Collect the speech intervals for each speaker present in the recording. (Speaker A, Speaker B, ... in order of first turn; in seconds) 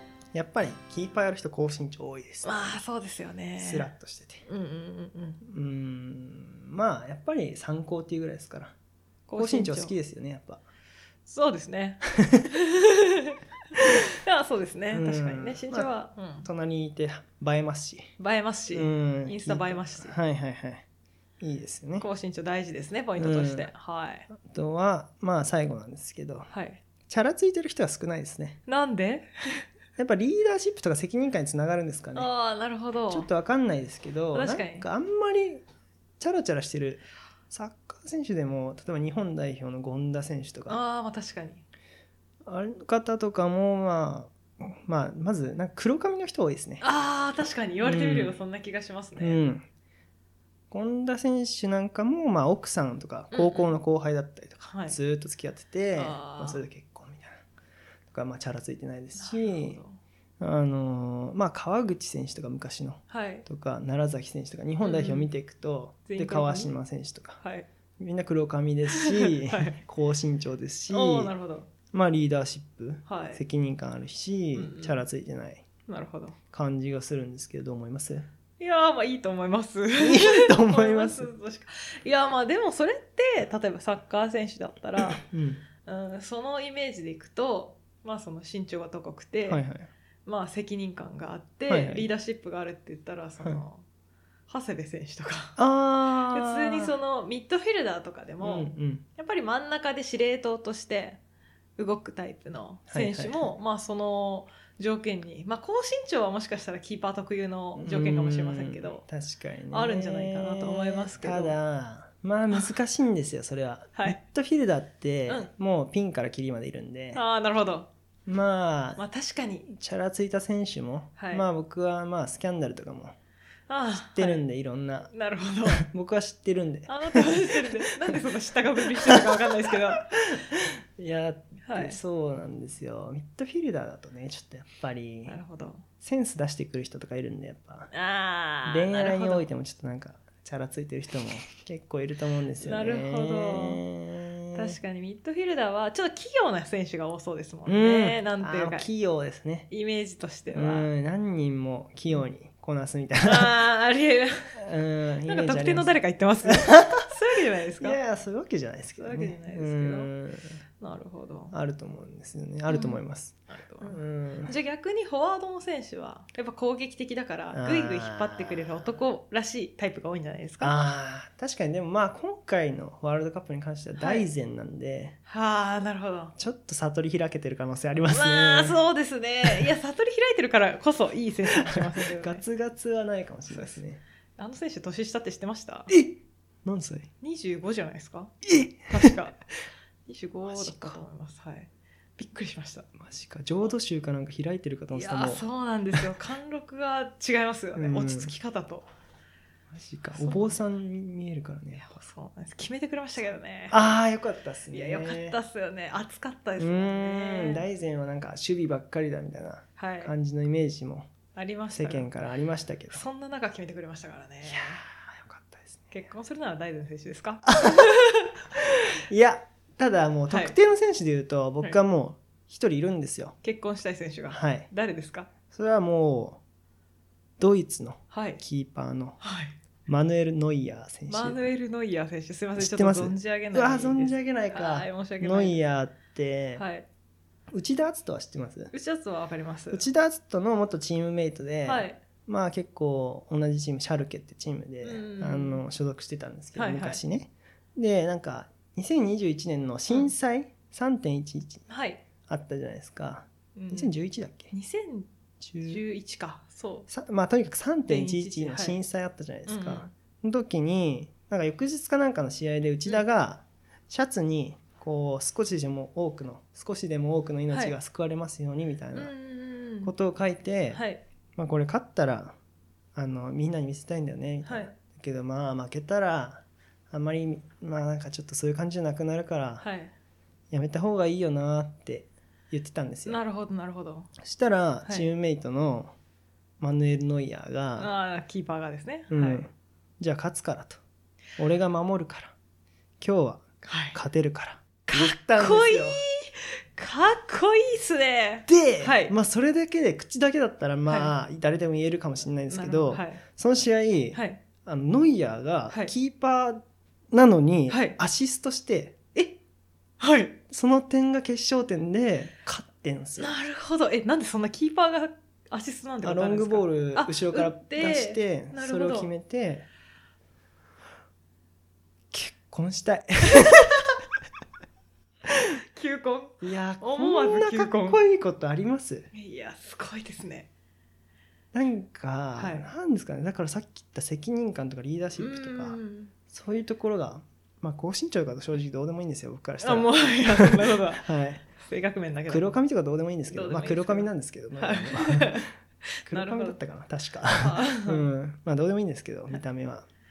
Speaker A: 0.3-2.6, 3.6-4.5, 5.4-8.8, 9.4-10.6, 12.2-12.5, 14.9-15.9, 16.4-18.1, 18.7-20.9, 21.4-22.1, 23.2-23.7, 24.4-26.5, 27.1-28.6, 30.0-32.3, 33.1-35.6, 36.2-40.8, 42.4-46.8, 47.8-48.4, 49.2-49.7, 50.7-57.4, 58.1-59.8, 60.4-67.4, 68.0-71.3, 71.9-75.7, 76.5-78.3, 80.0-81.3, 85.0-85.6, 89.4-89.9, 91.7-92.1, 95.6-96.9, 98.4-99.0, 102.9-103.5, 107.8-117.2, 118.2-119.0, 119.7-123.2, 124.0-125.1, 125.7-128.2, 130.4-135.4, 136.0-137.9, 138.7-144.8, 147.7-149.7, 150.5-153.6, 154.6-157.0, 157.8-160.5, 161.5-164.5, 167.5-168.8, 170.6-175.2, 176.4-178.8, 179.4-179.7, 181.5-184.0, 185.9-187.1, 188.4-189.2, 190.5-191.0, 193.0-195.4, 197.7-198.3, 199.7-201.9, 203.7-205.4, 206.6-211.1, 211.7-213.0, 214.4-215.9, 217.5-217.9, 218.6-223.3, 224.3-224.7, 225.5-226.4, 227.4-229.2, 229.8-231.5, 232.6-236.7, 237.5-238.7, 239.7-251.7, 252.3-254.5, 255.4-255.8, 256.9-269.1, 269.8-270.8, 271.4-272.4, 272.9-279.6, 280.5-283.2, 284.2-285.9, 286.6-287.9, 289.1-290.8, 291.4-292.4, 293.0-296.0, 298.5-309.0, 310.5-313.4, 316.0-319.6, 322.1-323.9, 326.4-329.1, 331.5-335.8, 336.3-341.4, 342.3-345.5, 346.1-349.9
Speaker B: 2.4-3.9, 4.5-5.4, 9.3-9.9, 11.3-16.5, 18.2-20.2, 22.0-24.3, 26.5-26.8, 28.7-29.6, 32.1-33.3, 34.3-34.9, 40.7-41.6, 46.8-49.4, 53.3-53.8, 54.6-55.0, 55.9-56.6, 59.2-60.0, 63.1-63.5, 64.8-65.3, 66.1-66.7, 67.4-67.7, 68.9-69.8, 70.9-71.7, 73.1-73.4, 74.5-75.0, 75.8-76.4, 78.6-85.2, 85.8-89.6, 90.2-93.8, 94.5-95.6, 96.3-101.2, 101.8-109.0, 109.7-111.6, 117.1-117.9, 119.0-119.7, 121.2-121.5, 123.7-124.4, 125.1-125.8, 126.9-130.2, 131.6-132.0, 135.2-135.8, 137.9-139.5, 142.6-143.8, 144.5-148.9, 149.7-150.9, 153.2-154.5, 155.3-158.0, 159.0-160.1, 160.8-161.5, 162.7-170.8, 174.0-174.3, 175.3-176.3, 178.1-182.4, 183.5-183.8, 184.4-185.9, 187.2-188.3, 188.9-189.4, 190.1-192.9, 194.9-198.9, 200.1-200.6, 201.8-203.8, 204.7-207.7, 209.8-210.1, 211.3-212.1, 212.9-214.8, 215.9-218.3, 220.3-220.6, 223.4-225.3, 228.1-228.4, 229.2-229.6, 231.1-235.6, 236.6-236.9, 238.7-239.8, 241.7-242.0, 244.8-245.6, 246.5-247.0, 251.7-252.0, 253.5-253.9, 254.5-255.1, 255.7-256.9, 257.9-258.8, 259.5-259.9, 268.9-269.9, 270.7-271.0, 274.4-274.7, 279.6-279.9, 283.0-284.1, 287.8-289.5, 293.6-294.0, 294.9-299.1, 300.9-301.1, 302.5-303.2, 304.1-304.4, 307.7-308.0, 310.0-310.4, 313.2-319.1, 325.5-328.0, 329.1-330.5, 332.4-332.7, 335.2-336.1, 339.6-342.6, 343.3-346.6, 347.4-348.1